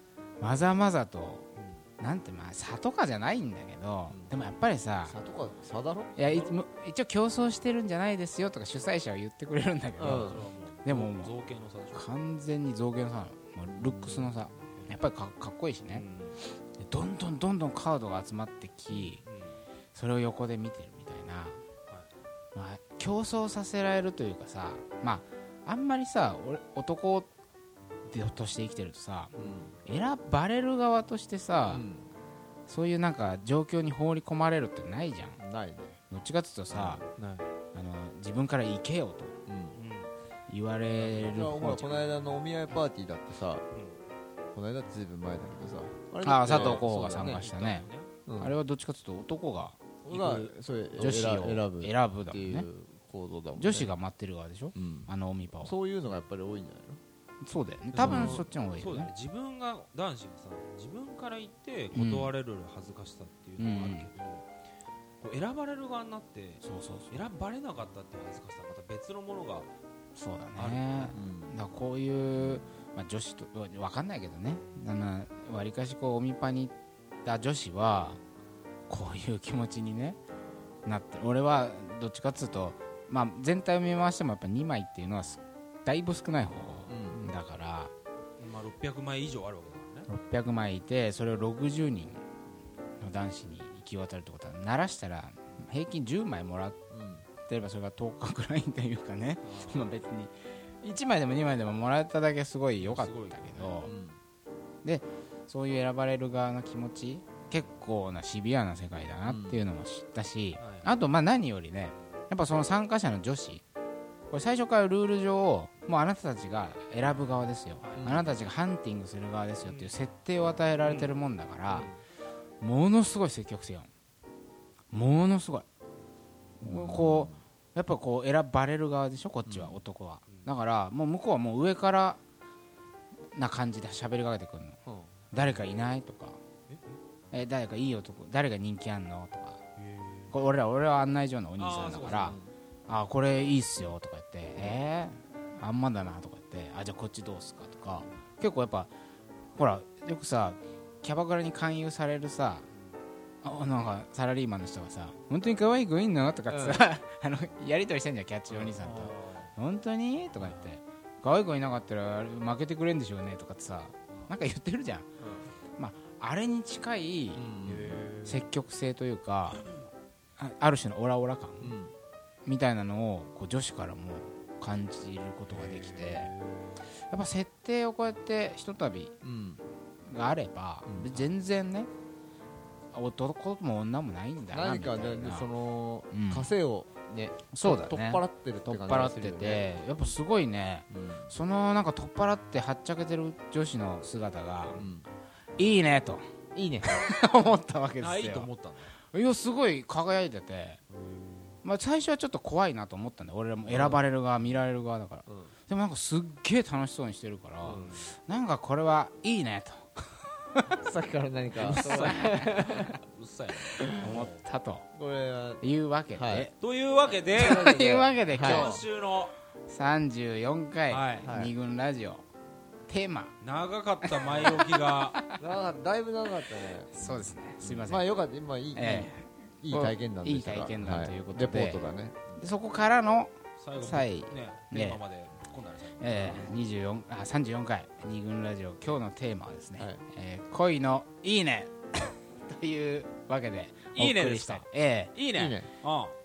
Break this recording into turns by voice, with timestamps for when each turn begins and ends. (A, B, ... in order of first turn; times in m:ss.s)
0:00.4-0:01.4 A
0:01.6-0:01.8 B
0:02.0-0:05.2 A
0:05.0-0:06.1 C
0:06.2-0:11.3 A
0:06.2-0:06.6 B
0:10.0-0:10.4 C
0:10.0-0:12.1 B
0:11.9-0:19.2 A
0:13.8-0:15.0 B
0:15.9-0:16.4 B
0:18.9-0:19.6 B
0:19.9-0:21.6 A
0:22.5-0:27.3 A
0:28.1-0:29.3 A
0:29.4-0:29.7 C
0:29.8-0:31.9 A
0:31.7-0:32.1 C
0:32.7-0:35.4 A
0:35.4-0:36.0 C
0:36.1-0:37.0 A
0:36.8-0:37.5 B
0:37.7-0:39.4 A
0:39.5-0:39.8 C
0:39.7-0:40.1 B
0:40.5-0:42.2 A
0:40.8-0:41.4 B
0:41.3-0:43.6 C
0:43.7-0:44.0 B
0:44.5-0:47.4 C
0:46.2-0:50.3 A
0:46.5-0:48.1 B
0:48.2-0:48.6 C
0:50.0-0:54.0 C
0:50.1-0:50.5 B
0:51.0-0:52.7 A
0:53.5-0:55.8 A
0:54.7-0:57.0 C
0:57.4-0:59.1 A
0:57.9-0:58.4 C
0:58.0-1:04.5 B
1:01.9-1:02.3 A
1:03.6-1:04.1 A
1:05.2-1:09.7 B
1:06.6-1:07.3 A
1:10.2-1:16.7 A
1:10.6-1:11.2 B
1:11.1-1:11.6 C
1:17.2-1:18.2 A
1:18.9-1:20.2 A
1:20.8-1:27.9 A
1:26.9-1:27.2 C
1:28.4-1:30.1 B
1:30.1-1:32.2 A
1:33.0-1:36.8 A
1:36.9-1:37.2 C
1:37.5-1:43.9 A
1:39.4-1:40.0 B
1:42.8-1:43.8 B
1:43.8-1:44.2 C
1:44.8-1:53.6 A
1:49.2-1:49.7 C
1:50.6-1:51.0 B
1:54.3-2:01.9 A
1:57.8-1:58.3 B
1:58.0-1:58.3 C
1:59.6-2:00.0 B
2:00.8-2:01.1 B
2:01.7-2:02.0 C
2:02.6-2:03.9 A
2:04.9-2:05.6 A
2:06.6-2:12.2 A
2:06.7-2:07.4 C
2:09.4-2:09.8 C
2:13.3-2:14.8 A
2:14.8-2:15.2 C
2:15.3-2:16.4 A
2:16.7-2:17.0 B
2:17.3-2:19.6 A
2:19.8-2:20.4 B
2:20.3-2:28.9 A
2:21.6-2:22.4 B
2:22.2-2:22.5 C
2:29.6-2:32.7 A
2:33.4-2:45.1 A
2:36.5-2:36.8 C
2:38.5-2:39.5 B
2:40.4-2:40.7 B
2:45.8-2:47.5 A
2:47.3-2:48.1 C
2:47.6-2:48.5 B
2:48.2-2:49.6 A
2:50.4-2:51.8 A
2:51.6-2:51.9 C
2:52.4-2:56.3 A
2:55.5-2:56.8 B
2:57.1-2:59.1 A
2:59.2-2:59.6 C
3:00.0-3:01.9 A
3:00.9-3:01.2 C
3:02.9-3:05.5 A
3:04.5-3:09.7 C
3:06.1-3:06.5 A
3:07.5-3:14.8 A
3:10.9-3:11.3 C
3:14.8-3:15.1 C
3:15.6-3:16.3 A
3:16.5-3:17.1 C
3:16.8-3:18.5 A
3:18.0-3:19.0 B
3:19.1-3:20.8 A
3:20.9-3:21.6 B
3:21.6-3:30.8 A
3:23.7-3:24.0 C
3:25.3-3:25.5 C
3:27.6-3:28.0 C
3:27.7-3:28.0 B
3:30.8-3:32.9 C
3:31.5-3:34.4 B
3:31.6-3:32.9 A
3:33.8-3:34.1 C
3:33.8-3:34.8 A
3:34.9-3:36.5 C
3:35.6-3:36.5 A
3:36.6-3:37.7 B
3:37.1-3:38.8 C
3:37.3-3:38.8 A
3:38.3-3:39.3 B
3:39.7-3:42.2 A
3:40.9-3:41.4 B
3:41.2-3:41.5 C
3:42.9-3:43.3 A
3:43.4-3:45.2 B
3:44.0-3:45.3 A
3:45.4-3:52.4 C
3:46.9-3:48.1 A
3:48.7-3:55.0 A
3:53.6-3:56.6 B
3:56.0-4:05.1 A
3:59.8-4:00.0 C
4:03.9-4:06.2 B
4:05.3-4:05.7 C